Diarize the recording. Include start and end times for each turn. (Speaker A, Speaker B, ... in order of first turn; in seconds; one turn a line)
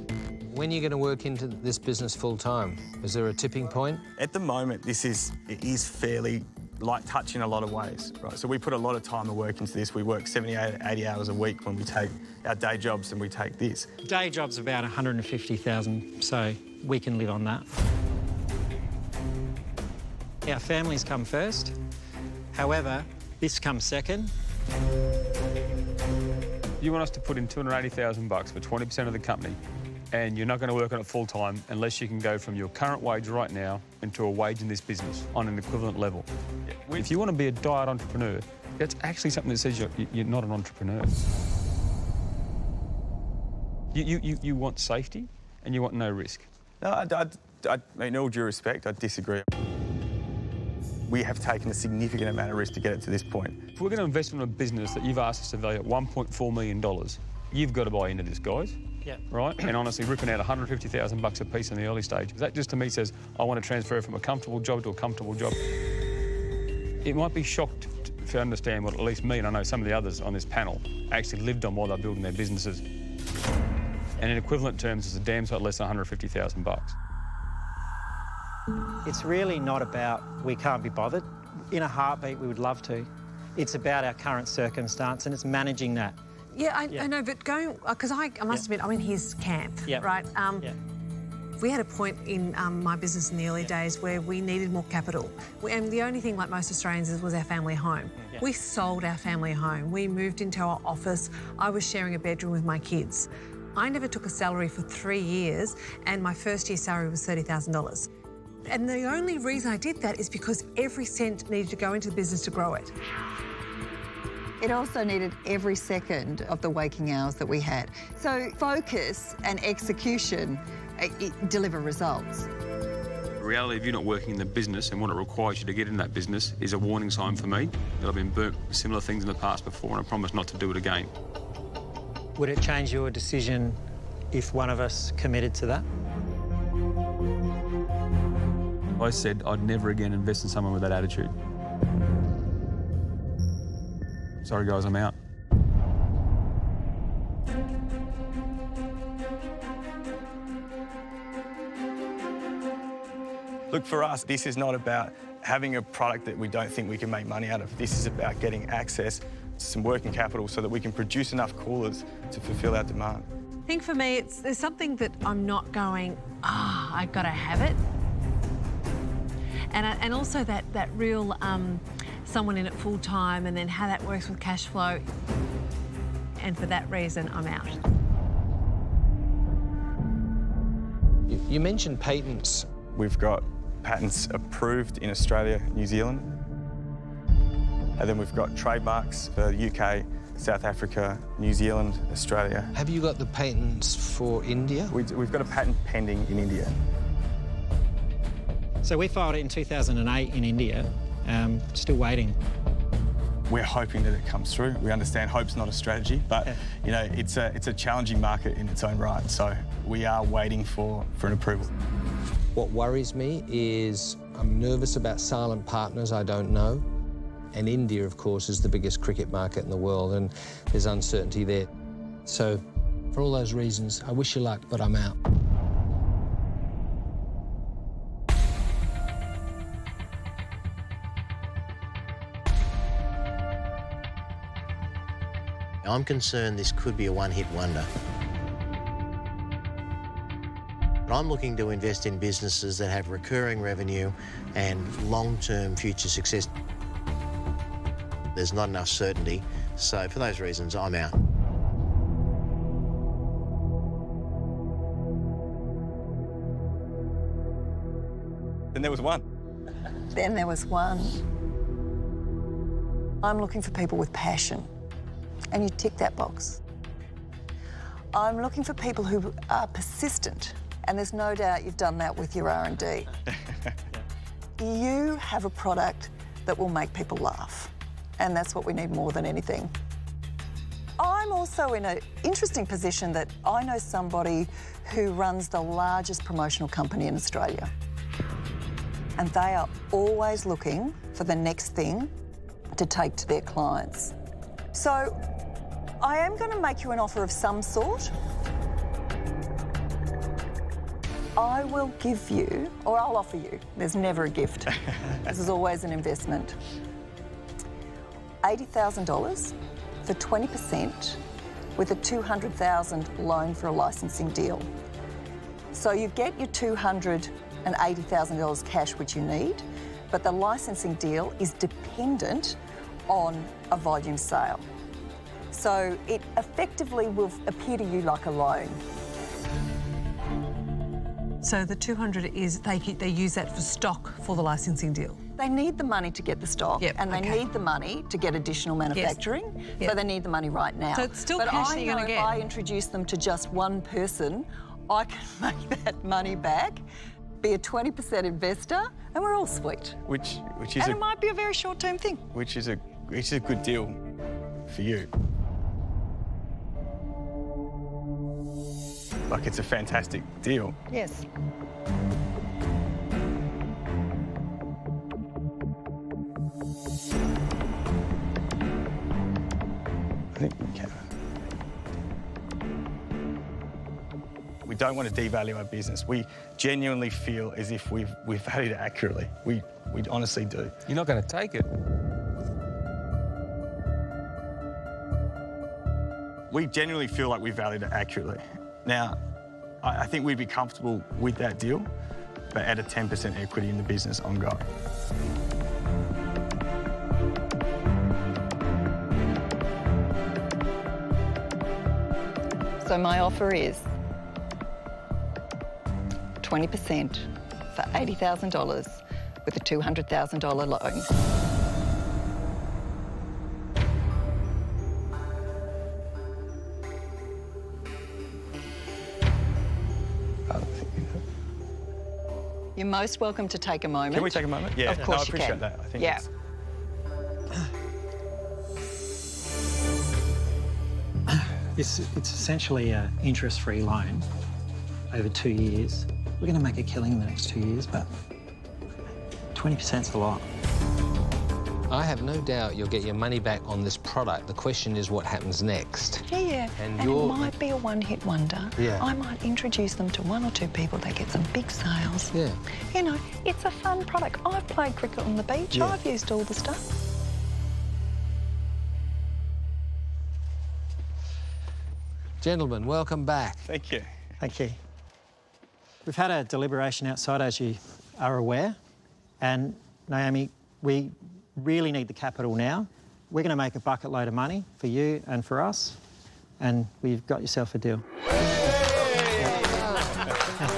Speaker A: 0.5-4.0
Speaker B: 4.2-13.9
Speaker C: 14.0-17.6
Speaker C: 20.4-21.7
Speaker C: 22.5-24.3
Speaker D: 26.8-29.6
Speaker D: 30.1-36.3
Speaker B: 36.7-37.1
Speaker D: 37.0-41.1
Speaker D: 43.9-46.5
Speaker B: 46.8-49.5
Speaker B: 51.1-53.6
Speaker D: 53.8-58.8
Speaker D: 59.3-65.6
Speaker D: 67.0-72.8
Speaker D: 74.2-77.0
Speaker C: 79.0-86.2
Speaker E: 86.5-90.7
Speaker E: 91.6-108.1
Speaker E: 108.7-112.9
Speaker F: 114.6-122.5
Speaker D: 123.4-131.1
Speaker C: 132.4-133.8
Speaker C: 134.3-135.8
Speaker D: 139.0-141.3
Speaker D: 144.4-145.1
Speaker B: 153.7-163.3
Speaker E: 163.7-167.8
Speaker E: 169.7-175.0
Speaker E: 176.4-177.8
Speaker A: 181.3-182.7
Speaker B: 182.9-186.3
Speaker B: 188.0-192.7
Speaker A: 192.7-194.9
Speaker B: 194.9-196.8
Speaker C: 198.8-202.4
Speaker B: 203.5-211.7
Speaker A: 212.5-216.8
Speaker A: 217.5-221.7
Speaker A: 222.2-222.6
Speaker A: 223.1-225.2
Speaker G: 235.8-237.9
Speaker G: 241.1-246.5
Speaker G: 248.3-251.2
Speaker B: 258.7-259.2
Speaker F: 260.1-261.2
Speaker F: 263.2-264.7
Speaker F: 265.5-266.6
Speaker F: 268.1-273.1
Speaker F: 274.6-279.7
Speaker F: 281.0-287.7
Speaker F: 289.2-292.1
Speaker F: 292.7-294.1
Speaker F: 294.7-295.2
Speaker F: 296.0-298.1
Speaker F: 301.4-306.6
Speaker F: 308.4-311.2
Speaker F: 311.8-314.7
Speaker F: 315.7-322.6
Speaker F: 323.1-324.6
Speaker F: 325.5-328.8
Speaker E: 331.4-335.2
Speaker F: 335.4-346.8
Speaker E: 336.8-337.4
Speaker E: 338.9-339.2
Speaker E: 340.9-342.4
Speaker F: 347.4-350.0
Speaker B: 350.1-351.0
Speaker F: 350.8-352.2
Speaker B: 352.3-354.0
Speaker B: 354.7-355.1
Speaker B: 359.3-360.7
Speaker F: 360.9-361.2
Speaker B: 370.3-371.0
Speaker B: 374.6-380.7
Speaker D: 380.9-381.7
Speaker B: 386.5-389.2
Speaker B: 389.8-391.9
Speaker B: 392.5-394.6
Speaker F: 402.8-403.9
Speaker F: 406.4-411.1
Speaker B: 420.5-421.2
Speaker F: 422.8-426.2
Speaker B: 424.1-426.2
Speaker C: 431.3-434.2
Speaker C: 435.1-438.1
Speaker C: 439.5-440.4
Speaker A: 441.9-446.3
Speaker F: 446.3-452.3
Speaker A: 446.8-447.5
Speaker A: 448.8-449.1
Speaker A: 452.3-452.6
Speaker F: 452.9-456.8
Speaker A: 462.4-463.6
Speaker B: 463.6-464.1
Speaker C: 464.4-464.8
Speaker C: 466.1-468.8
Speaker C: 469.4-476.0
Speaker C: 476.6-478.0
Speaker A: 478.9-480.3
Speaker C: 479.4-479.7